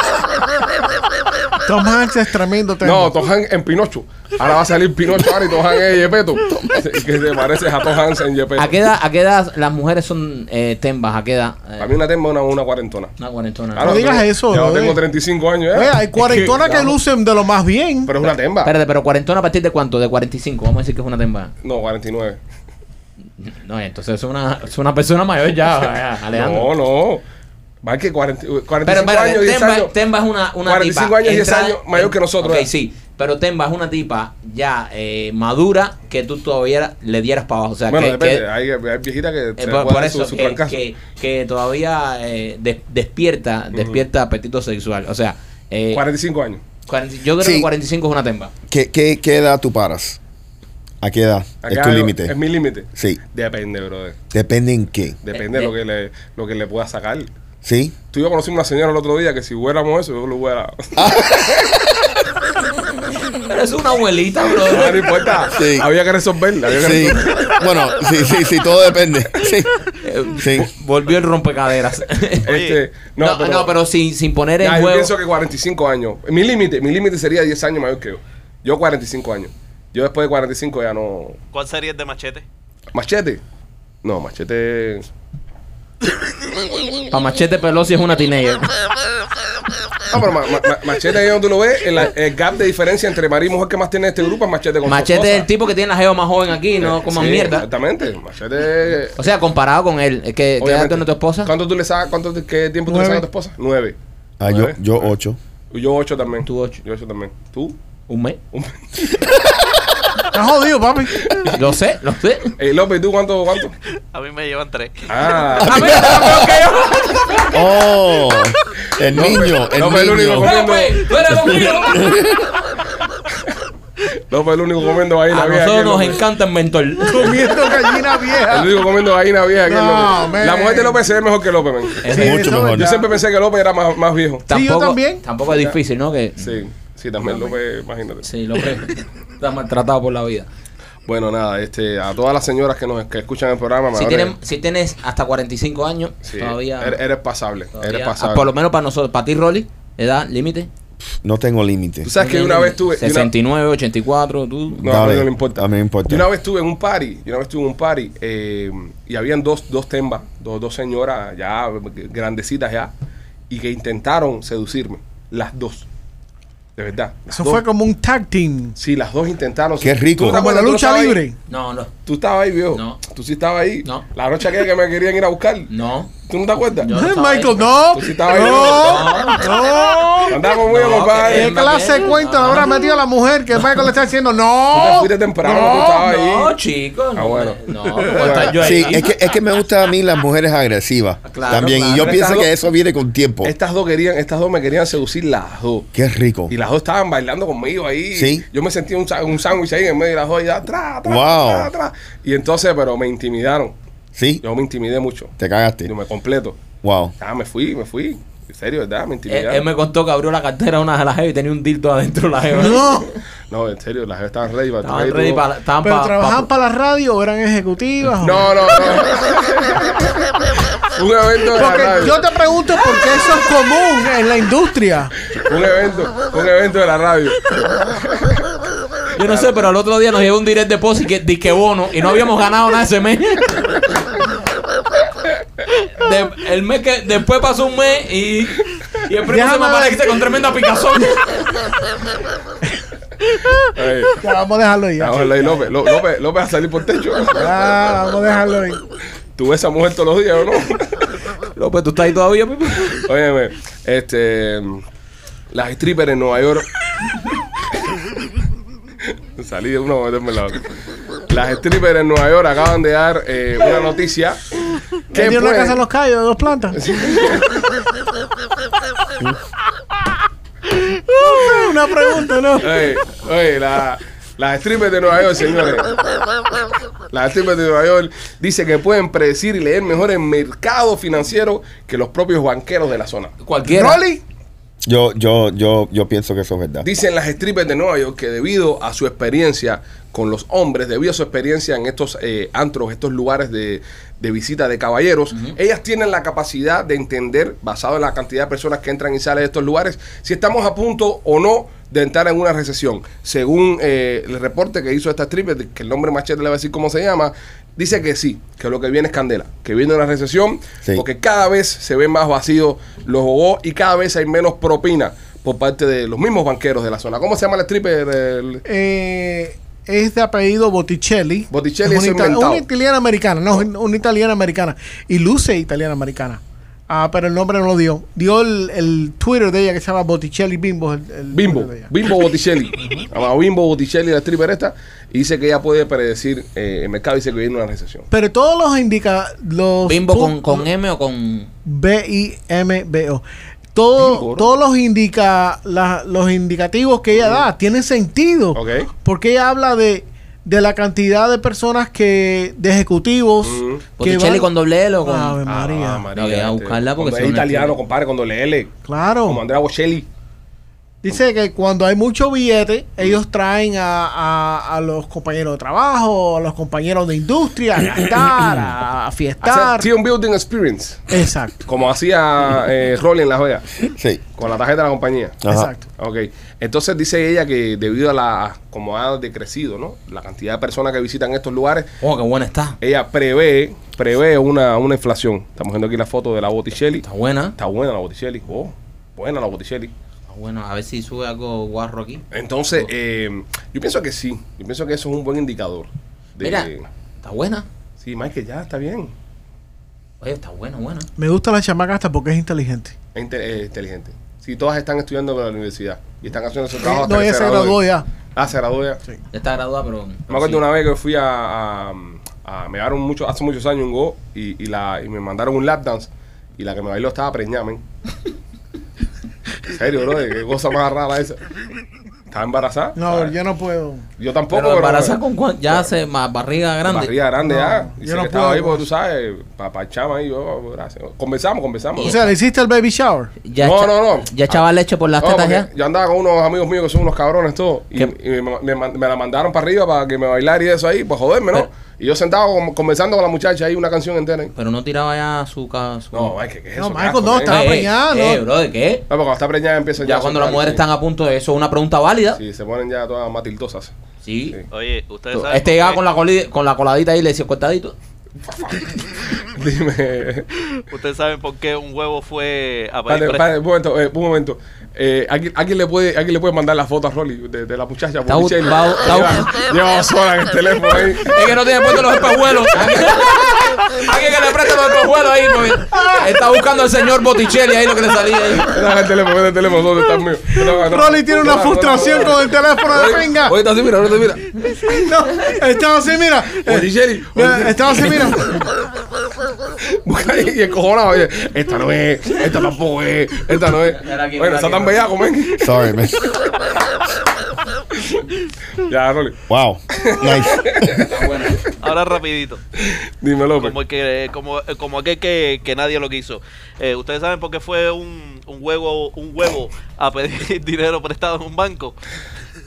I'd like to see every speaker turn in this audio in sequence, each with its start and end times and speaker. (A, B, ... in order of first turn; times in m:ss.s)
0:01.6-0:03.1 A
0:02.8-0:08.8 B
0:08.6-0:11.9 C
0:11.8-0:13.1 B
0:13.2-0:14.1 C
0:13.8-0:16.9 B
0:13.8-0:15.0 A
0:15.7-0:18.1 A
0:16.2-0:16.9 C
0:18.1-0:18.7 B
0:18.2-0:21.5 C
0:21.6-0:22.4 B
0:23.4-0:26.7 C
0:26.3-0:27.2 B
0:27.8-0:29.9 B
0:28.8-0:38.4 C
0:30.6-0:32.7 B
0:37.9-0:40.8 B
0:39.6-0:46.0 C
0:43.7-0:44.0 B
0:45.9-0:46.6 B
0:46.9-0:48.5 C
0:47.4-0:47.7 D
0:48.7-0:50.2 D
0:51.0-0:52.3 D
0:51.6-0:54.2 B
0:54.3-0:55.2 D
0:55.2-0:57.3 B
0:55.3-0:55.7 C
0:57.6-0:58.0 D
0:58.1-1:00.9 B
1:01.0-1:02.1 D
1:02.8-1:05.5 C
1:04.6-1:07.6 B
1:05.5-1:05.9 D
1:06.8-1:10.7 D
1:10.0-1:12.5 C
1:12.4-1:13.7 B
1:12.5-1:12.8 E
1:13.2-1:15.1 C
1:14.6-1:21.4 B
1:21.5-1:22.5 E
1:22.9-1:23.4 B
1:24.0-1:25.1 B
1:27.1-1:28.7 C
1:30.1-1:35.5 B
1:34.8-1:37.7 C
1:36.8-1:39.2 B
1:39.2-1:41.5 C
1:40.6-1:45.1 B
1:42.9-1:43.3 A
1:44.4-1:45.4 D
1:45.7-1:47.8 B
1:46.4-1:46.8 C
1:48.1-1:48.4 C
1:48.5-1:48.9 B
1:50.3-1:51.4 A
1:51.2-1:51.6 B
1:51.5-1:52.6 C
1:52.6-1:53.7 B
1:54.1-1:55.6 E
1:55.1-1:56.3 B
1:55.6-1:57.6 C
1:55.6-1:56.5 D
1:57.5-2:00.6 D
1:59.1-2:01.5 B
2:00.3-2:02.2 C
2:01.5-2:02.5 D
2:04.3-2:06.2 B
2:05.3-2:07.7 C
2:07.1-2:08.8 A
2:08.4-2:14.5 B
2:09.6-2:11.0 A
2:12.0-2:12.5 C
2:12.1-2:13.0 D
2:12.1-2:13.1 A
2:14.5-2:16.6 C
2:14.5-2:15.2 A
2:15.4-2:15.8 B
2:16.4-2:18.3 B
2:18.2-2:20.5 C
2:21.1-2:24.3 B
2:24.0-2:27.0 C
2:26.2-2:28.5 B
2:27.8-2:30.7 C
2:31.1-2:32.1 D
2:32.0-2:33.3 B
2:32.2-2:34.8 C
2:34.8-2:42.9 B
2:34.8-2:36.3 D
2:43.5-2:45.9 B
2:46.8-2:47.6 B
2:47.3-2:48.8 A
2:48.8-2:51.2 B
2:49.8-2:50.4 D
2:50.2-2:51.4 A
2:51.5-2:51.9 C
2:52.1-2:55.7 B
2:52.7-2:53.0 C
2:55.7-2:56.1 C
2:56.2-2:56.9 B
2:56.8-2:57.8 C
2:56.9-3:00.5 A
2:57.9-2:59.3 B
2:58.4-2:59.7 C
3:00.3-3:01.6 B
3:00.5-3:03.0 C
3:01.3-3:05.1 A
3:04.7-3:06.5 B
3:05.4-3:09.1 C
3:07.2-3:08.9 B
3:08.6-3:13.5 D
3:11.2-3:12.2 C
3:12.0-3:12.5 B
3:13.4-3:15.9 B
3:15.9-3:16.5 D
3:16.5-3:23.8 B
3:18.1-3:18.4 D
3:21.0-3:21.7 D
3:24.2-3:24.4 D
3:24.4-3:25.3 B
3:25.4-3:25.9 D
3:25.8-3:26.6 B
3:26.8-3:27.1 D
3:27.2-3:29.6 B
3:29.3-3:33.0 C
3:32.5-3:33.1 A
3:33.5-3:35.4 B
3:34.8-3:36.5 C
3:35.8-3:38.8 A
3:38.2-3:40.2 B
3:40.9-3:42.2 B
3:41.5-3:45.1 A
3:45.3-3:48.4 B
3:49.2-3:53.9 C
3:49.2-3:49.5 B
3:55.8-4:01.6 C
3:59.3-4:00.0 A
4:03.8-4:04.2 B
4:04.2-4:05.7 A
4:05.0-4:07.6 B
4:07.3-4:08.8 A
4:09.4-4:11.1 B
4:11.6-4:13.0 C
4:12.9-4:14.8 B
4:15.5-4:16.7 B
4:19.4-4:20.7 B
4:21.3-4:24.5 B
4:25.1-4:25.8 B
4:25.1-4:26.8 A
4:26.7-4:27.7 B
4:30.9-4:33.0 A
4:32.6-4:36.0 B
4:37.1-4:43.3 B
4:43.4-4:44.0 C
4:43.6-4:44.2 A
4:44.9-4:46.9 D
4:46.8-5:18.6 B
5:18.6-5:31.9 A
5:21.5-5:22.6 B
5:31.3-5:38.1 B
5:32.8-5:33.0 A
5:38.1-5:40.7 A
5:39.9-5:41.5 C
5:41.7-5:43.2 A
5:43.8-5:54.5 A
5:44.0-5:44.5 B
5:47.1-5:47.5 B
5:48.5-5:48.9 B
5:53.4-5:53.9 B
5:54.0-5:55.4 C
5:55.0-5:56.1 A
5:55.4-5:58.7 B
5:56.1-5:57.8 C
5:58.9-5:59.4 A
5:59.2-6:00.1 B
6:01.0-6:09.9 A
6:09.4-6:11.0 B
6:11.1-6:11.6 A
6:11.6-6:13.7 B
6:13.9-6:14.2 D
6:14.4-6:15.4 B
6:15.4-6:15.7 D
6:15.5-6:15.9 A
6:16.0-6:21.9 B
6:22.0-6:22.8 C
6:22.8-6:27.1 B
6:27.0-6:27.6 C
6:27.6-6:29.9 B
6:30.3-6:32.9 C
6:32.3-6:36.9 B
6:36.4-6:36.7 C
6:37.2-6:37.7 C
6:38.0-6:39.1 B
6:40.2-6:41.1 C
6:41.2-6:43.0 A
6:43.2-6:47.8 B
6:46.8-6:48.1 A
6:48.4-6:49.0 B
6:49.3-6:50.6 C
6:50.3-6:57.8 B
6:59.7-7:01.4 B
7:02.3-7:03.3 B
7:03.0-7:04.1 A
7:04.2-7:05.9 B
7:04.5-7:07.1 C
7:06.8-7:12.2 B
7:07.4-7:08.8 A
7:12.0-7:12.3 C
7:12.0-7:13.3 A
7:13.4-7:15.7 C
7:13.6-7:14.6 B
7:15.2-7:24.5 B
7:24.6-7:26.4 C
7:26.1-7:27.6 B
7:26.8-7:28.4 A
7:27.5-7:29.0 C
7:29.1-7:30.8 B
7:30.0-7:32.4 C
7:32.4-7:33.9 B
7:34.2-7:34.6 C
7:34.7-7:36.0 E
7:35.3-7:38.0 C
7:38.5-7:40.5 B
7:40.9-7:43.5 E
7:43.1-7:52.1 B
7:48.3-7:49.5 C
7:51.2-7:58.8 C
7:52.8-7:53.5 B
7:55.9-7:56.3 A
7:58.6-8:04.5 B
8:00.7-8:03.6 A
8:04.8-8:08.6 A
8:06.6-8:08.7 B
8:09.9-8:16.4 B
8:13.9-8:15.1 C
8:15.6-8:16.3 D
8:17.9-8:18.2 B
8:18.8-8:21.2 B
8:19.5-8:21.0 D
8:20.9-8:21.7 C
8:21.8-8:22.6 E
8:22.8-8:23.8 B
8:23.6-8:32.0 E